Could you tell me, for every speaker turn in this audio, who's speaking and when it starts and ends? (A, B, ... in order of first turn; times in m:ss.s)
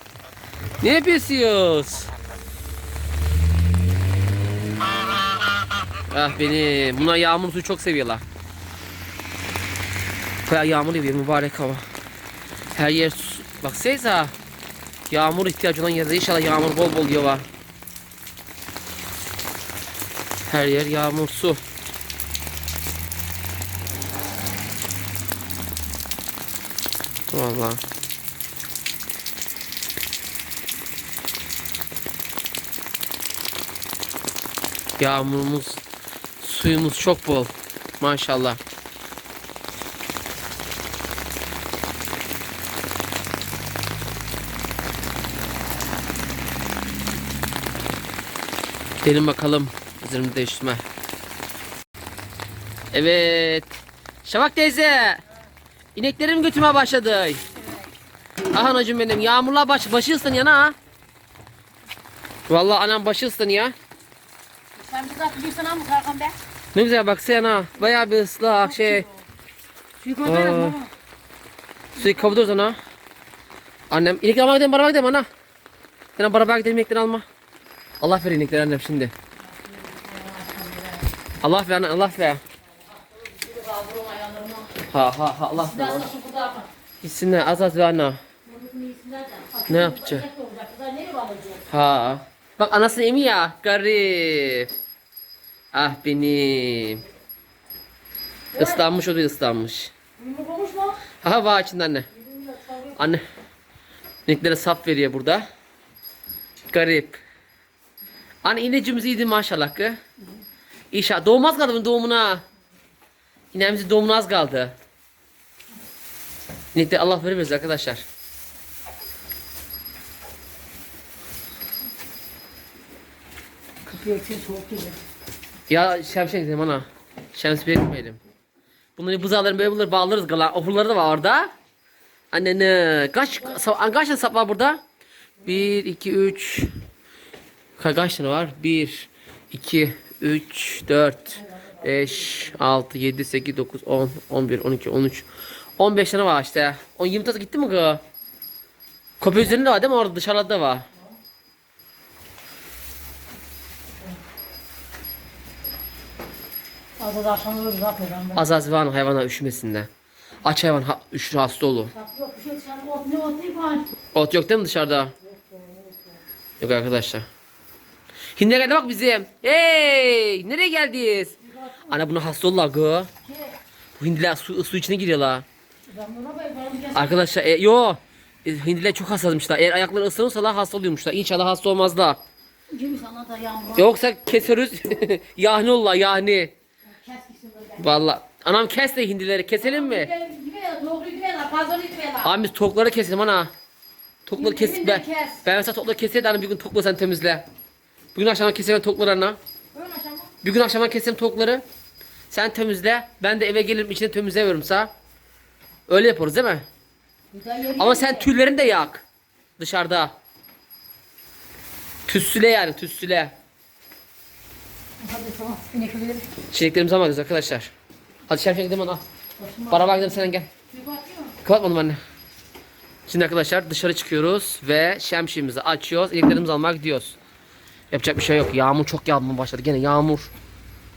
0:00.8-0:02.1 A
0:06.1-0:08.2 A
0:10.5-0:11.8 A
0:12.7-0:14.3 A
0:15.1-0:17.4 A
0:20.5-0:21.6 A
0:27.3-0:27.8 A
0:35.0-0:35.8 A
0:36.4-0:38.6 A
0:49.0-0:50.8 A
0:52.9-0:55.2 A
0:56.0-0:57.4 A
0:58.5-1:00.8 A
1:02.5-1:03.8 A
1:04.8-1:06.4 B
1:06.7-1:09.1 A
1:08.6-1:09.2 B
1:10.0-1:10.9 B
1:10.2-1:10.8 A
1:12.0-1:12.8 A
1:13.9-1:15.3 A
1:16.2-1:17.3 A
1:18.0-1:19.1 A
1:19.4-1:21.1 B
1:21.4-1:22.4 A
1:22.9-1:24.8 B
1:24.9-1:26.1 A
1:25.6-1:26.7 B
1:27.0-1:28.2 A
1:28.5-1:31.6 B
1:29.7-1:30.2 A
1:31.7-1:34.7 A
1:35.7-1:37.0 A
1:38.5-1:38.8 B
1:38.6-1:39.9 A
1:40.2-1:41.0 B
1:41.2-1:42.1 A
1:42.1-1:43.0 B
1:43.0-1:43.2 A
1:44.3-1:45.5 A
1:46.7-1:47.2 A
1:48.4-1:50.0 A
1:50.9-1:52.4 A
1:53.5-1:54.8 A
1:56.8-1:58.0 A
2:03.8-2:05.0 B
2:05.7-2:08.2 A
2:09.0-2:11.5 A
2:12.3-2:14.8 A
2:15.4-2:16.7 A
2:17.8-2:28.0 A
2:21.4-2:22.3 B
2:29.2-2:30.9 A
2:37.0-2:38.4 B
2:38.3-2:39.9 A
2:40.4-2:41.9 A
2:41.9-2:43.9 B
2:44.1-2:45.1 A
2:45.2-2:46.2 B
2:46.6-2:47.3 A
2:48.4-2:51.4 A
2:51.4-2:52.0 B
2:51.9-2:53.1 A
2:53.2-2:53.6 B
2:54.0-2:55.4 A
2:55.9-2:57.2 B
2:57.0-3:02.2 A
3:02.7-3:03.9 B
3:03.8-3:06.5 A
3:06.8-3:07.9 B
3:07.8-3:10.1 A
3:09.6-3:12.3 B
3:12.2-3:13.5 A
3:14.2-3:17.4 A
3:14.4-3:15.4 B
3:18.2-3:19.4 A
3:19.7-3:20.3 B
3:20.4-3:21.6 A
3:22.3-3:24.9 A
3:25.9-3:26.7 A
3:27.3-3:28.3 B
3:27.8-3:29.0 A
3:29.6-3:30.2 A
3:32.1-3:33.4 A
3:35.0-3:36.3 B
3:36.5-3:37.7 A
3:38.3-3:39.0 A
3:39.4-3:41.4 B
3:39.7-3:40.5 A
3:41.4-3:42.0 A
3:43.1-3:47.2 A
3:47.9-3:50.3 A